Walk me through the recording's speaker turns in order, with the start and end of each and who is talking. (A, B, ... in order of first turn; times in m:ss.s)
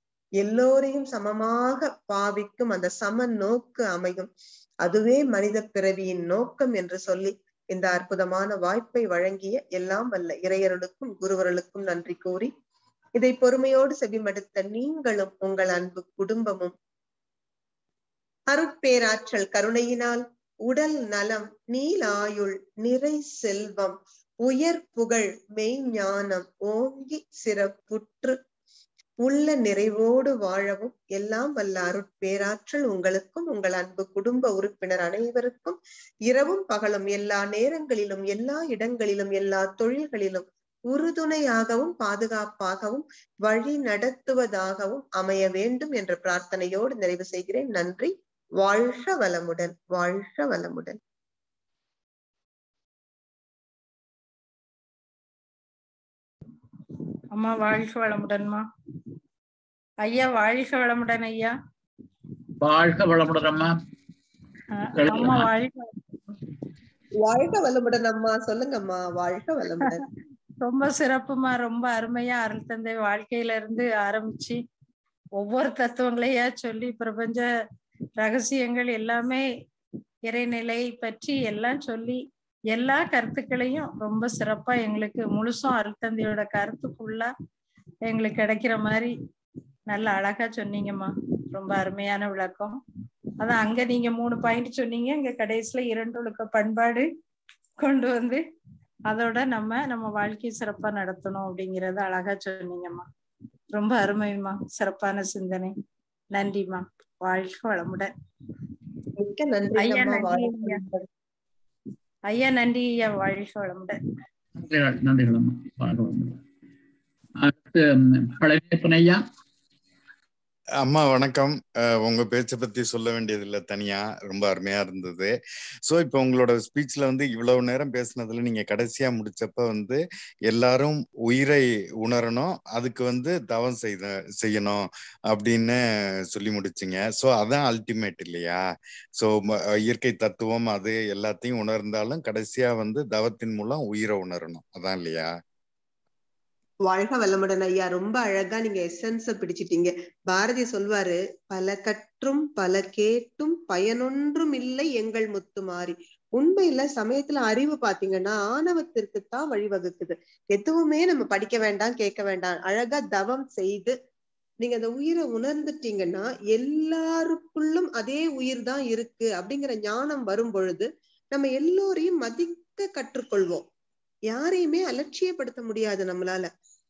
0:00.4-0:04.3 A
0:04.8-0:12.5 A
0:13.2-0:16.7 A
0:18.5-0:28.4 A
0:29.2-0:51.0 A
0:57.3-0:58.6 B
1:00.0-1:01.5 B
1:02.6-1:03.7 C
1:04.8-1:06.4 B
1:05.0-1:05.5 C
1:07.2-1:10.0 A
1:10.6-1:14.6 B
1:15.4-1:17.5 B
1:18.2-1:19.4 B
1:20.3-1:22.2 B
1:22.7-1:27.3 B
1:28.0-1:29.1 B
1:29.9-1:32.8 B
1:33.4-1:37.1 B
1:37.8-1:38.4 B
1:39.1-1:43.0 B
1:43.7-1:45.7 B
1:46.3-1:48.7 B
1:49.2-1:51.0 A
1:49.8-1:50.8 B
1:52.3-1:54.0 B
1:54.6-1:56.4 C
1:57.4-1:59.2 C
2:00.8-2:05.3 D
2:05.8-2:15.8 D
2:16.3-2:18.6 D
2:19.2-2:25.3 D
2:26.8-2:43.9 A
2:44.6-2:53.6 A
2:54.3-2:56.5 A